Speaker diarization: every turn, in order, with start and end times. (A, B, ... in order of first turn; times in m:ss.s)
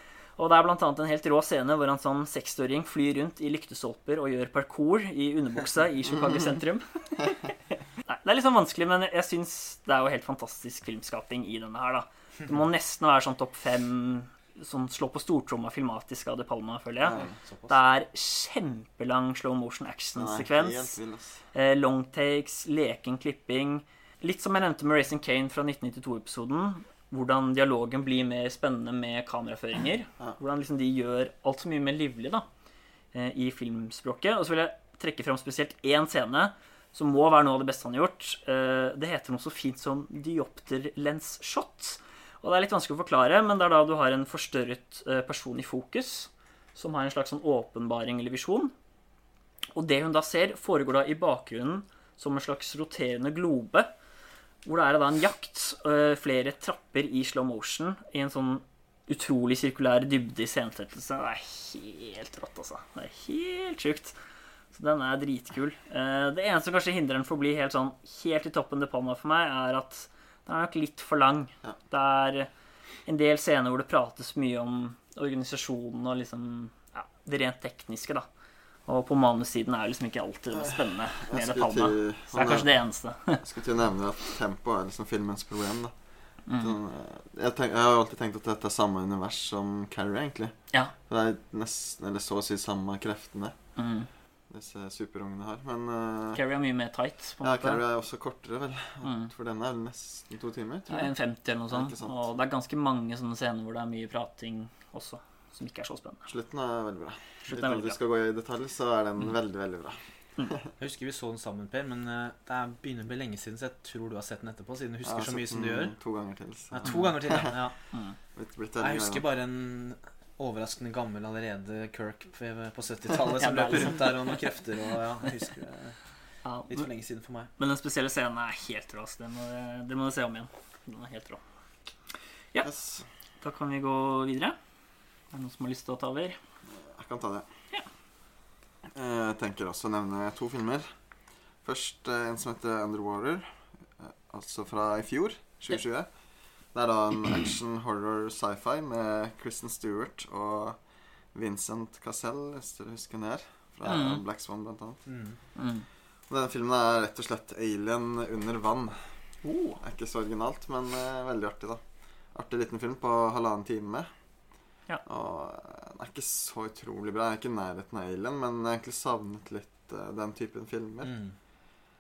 0:00.4-0:21.0 A
0:17.0-0:17.3 B
0:17.1-0:17.8 C
0:20.2-0:21.4 B
0:21.5-0:32.5 A
0:33.1-0:48.7 A
0:49.8-0:53.9 A
0:54.6-1:04.2 A
1:04.7-1:12.5 A
1:13.0-1:18.3 A
1:18.9-1:23.4 A
1:20.6-1:33.9 B
1:26.4-1:26.8 A
1:33.8-1:34.1 A
1:34.5-1:36.4 B
1:36.3-1:37.8 A
1:37.4-1:41.1 B
1:39.0-1:39.3 A
1:40.9-1:46.3 A
1:41.7-1:42.3 B
1:46.3-1:50.7 B
1:47.4-1:48.0 A
1:50.8-1:56.0 C
1:55.0-1:57.6 B
1:56.7-1:57.8 C
1:57.9-1:58.2 A
1:58.4-1:59.2 B
1:58.8-2:06.0 C
2:03.4-2:04.4 A
2:06.4-2:06.9 A
2:06.7-2:07.5 C
2:07.6-2:11.4 A
2:12.6-2:13.0 B
2:13.4-2:14.6 A
2:15.3-2:16.4 A
2:16.8-2:17.5 B
2:18.9-2:21.0 B
2:21.5-2:35.1 B
2:33.8-2:34.2 A
2:35.1-2:35.4 C
2:35.6-2:35.9 A
2:36.3-2:39.2 B
2:39.4-2:39.8 A
2:39.8-2:51.2 B
2:51.0-2:51.4 C